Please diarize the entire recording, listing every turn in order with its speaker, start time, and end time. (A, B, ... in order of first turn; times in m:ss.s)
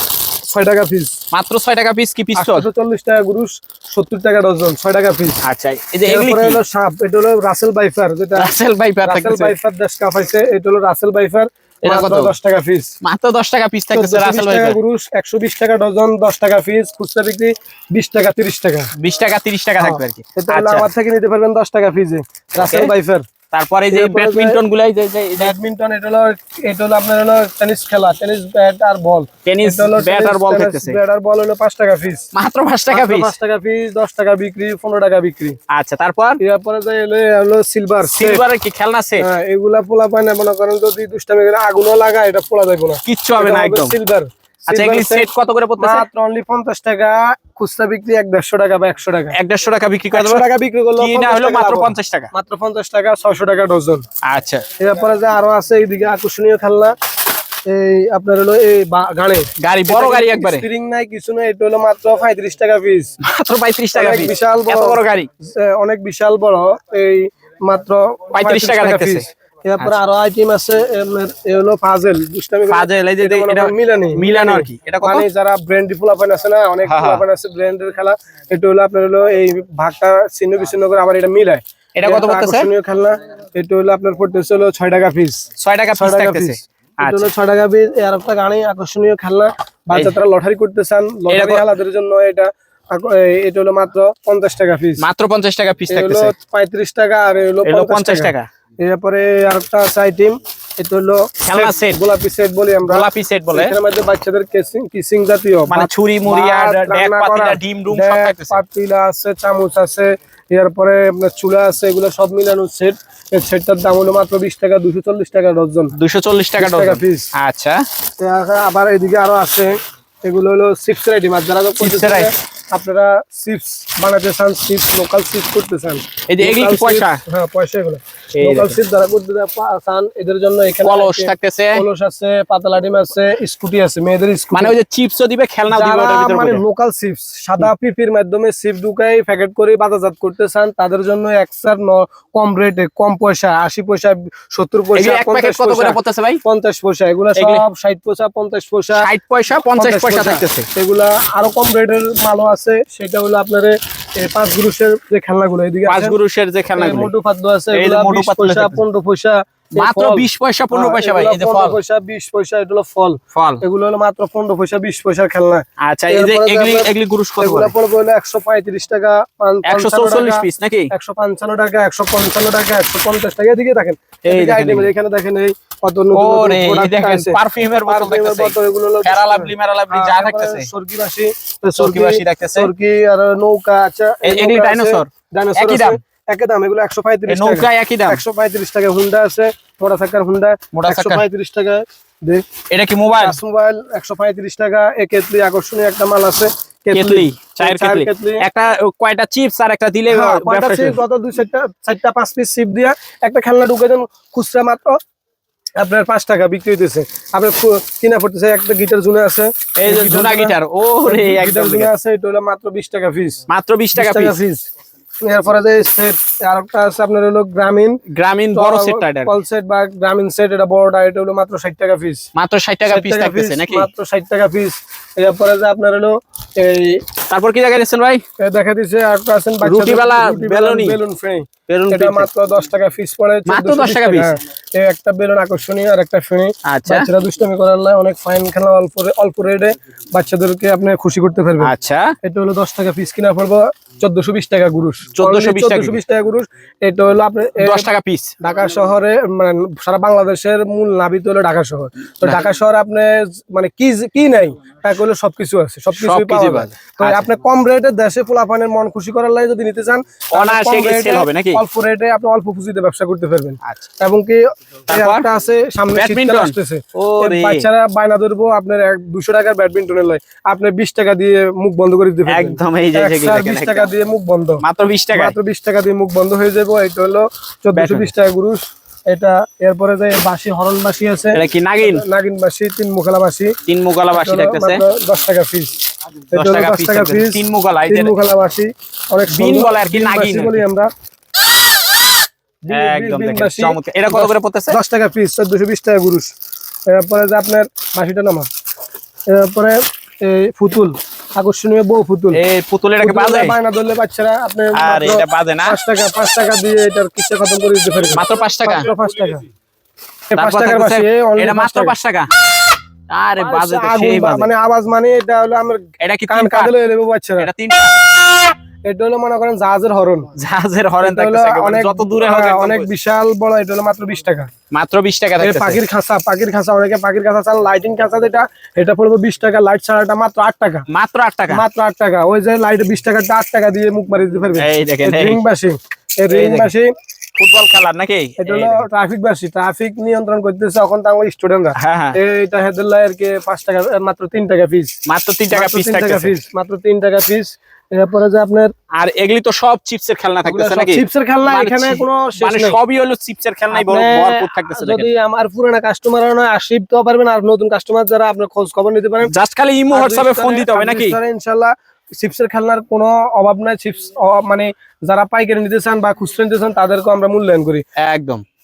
0:00.5-0:01.1 A
0:01.3-0:02.7 B
0:02.4-0:05.4 A
0:05.4-0:06.6 B
0:06.0-0:12.9 A
0:08.4-0:09.5 B
0:11.8-0:12.3 B
0:13.0-0:14.8 B
0:13.9-0:18.9 A
0:19.0-0:20.9 B
0:19.8-0:23.2 A
0:22.6-0:22.9 B
0:23.5-0:25.6 B
0:23.9-0:24.6 A
0:25.4-0:32.2 A
0:29.4-0:31.0 B
0:32.3-0:33.3 B
0:32.9-0:35.6 A
0:35.7-0:36.4 B
0:36.4-0:38.4 A
0:38.1-0:39.2 B
0:39.2-0:45.3 A
0:43.0-0:43.9 B
0:44.7-0:46.0 B
0:45.8-0:49.4 A
0:49.3-0:50.4 B
0:50.1-0:54.0 A
0:51.0-0:52.3 B
0:54.2-0:54.6 B
0:54.8-0:56.9 A
0:57.7-1:03.1 A
0:59.6-1:00.6 B
1:03.2-1:05.3 B
1:03.9-1:25.4 A
1:08.3-1:09.3 B
1:12.7-1:15.3 B
1:16.8-1:17.2 B
1:21.9-1:22.7 B
1:25.6-1:27.3 B
1:26.0-1:35.0 A
1:31.3-1:31.7 B
1:35.0-1:36.3 B
1:35.9-1:55.9 A
1:37.6-1:38.5 B
1:41.4-1:42.0 B
1:42.9-1:43.8 B
1:45.7-1:48.6 B
1:55.9-1:57.8 B
1:56.6-1:57.3 A
1:58.2-2:14.7 A
2:01.8-2:02.3 B
2:06.3-2:07.2 B
2:08.3-2:08.8 B
2:10.8-2:11.8 B
2:14.5-2:16.6 B
2:15.7-2:29.1 A
2:24.9-2:26.4 B
2:27.4-2:27.6 B
2:29.0-2:30.7 B
2:29.8-2:36.2 A
2:35.9-2:37.1 B
2:36.8-3:12.4 A
2:37.7-2:38.8 B
2:39.8-2:41.8 B
2:43.3-2:43.6 B
2:45.8-2:47.7 B
2:49.6-2:50.9 B
2:54.2-2:54.9 B
2:56.1-3:00.7 B
3:01.8-3:02.7 B
3:04.2-3:06.0 B
3:07.3-3:08.2 B
3:10.7-3:11.2 B
3:12.7-3:13.4 B
3:13.2-3:18.4 A
3:16.9-3:21.0 B
3:20.1-3:25.0 A
3:25.8-3:33.4 A
3:29.8-3:31.9 B
3:33.5-3:34.3 B
3:33.9-3:34.6 A
3:35.2-3:38.0 A
3:38.1-3:39.3 B
3:38.5-3:42.2 A
3:42.3-3:43.9 B
3:42.9-3:47.0 A
3:47.3-3:48.2 B
3:48.4-4:01.7 A
3:49.6-3:51.0 B
3:51.7-3:52.3 B
3:53.4-3:54.3 B
3:56.6-3:57.1 B
4:01.6-4:02.1 B
4:02.2-4:07.9 A
4:05.2-4:06.0 B
4:07.6-4:08.3 B
4:08.4-4:34.6 A
4:15.9-4:17.3 B
4:20.3-4:21.6 B
4:24.9-4:25.3 B
4:25.9-4:27.7 B
4:32.3-4:33.9 B
4:34.6-4:35.4 B
4:35.1-4:43.5 A
4:37.7-4:38.1 B
4:41.3-4:42.0 B
4:43.6-4:44.8 B
4:44.1-4:45.7 A
4:46.3-4:50.9 A
4:46.3-4:48.1 B
4:49.3-4:50.6 B
4:52.6-4:56.3 A
4:52.7-4:54.8 B
4:56.9-4:58.5 A
4:59.3-5:02.4 A
5:02.3-5:03.5 B
5:03.0-5:09.4 A
5:04.7-5:05.8 B
5:08.1-5:08.9 B
5:10.3-5:11.9 A
5:10.4-5:12.3 B
5:13.1-5:14.5 B
5:13.4-5:17.5 A
5:16.0-5:16.7 B
5:17.4-5:18.0 B
5:18.8-5:20.3 A
5:20.3-5:22.9 B
5:21.0-5:24.5 A
5:24.7-5:25.8 B
5:25.4-5:30.8 A
5:30.9-5:31.6 B
5:31.5-5:36.9 A
5:34.6-5:35.4 B
5:36.3-5:36.7 B
5:37.4-5:38.8 B
5:38.4-5:45.0 A
5:41.8-5:42.2 B
5:45.0-5:46.3 B
5:45.5-5:48.7 A
5:49.0-5:55.1 B
5:50.4-5:52.8 A
5:53.7-5:59.3 A
5:59.3-6:01.2 B
5:59.9-6:07.8 A
6:08.0-6:08.4 B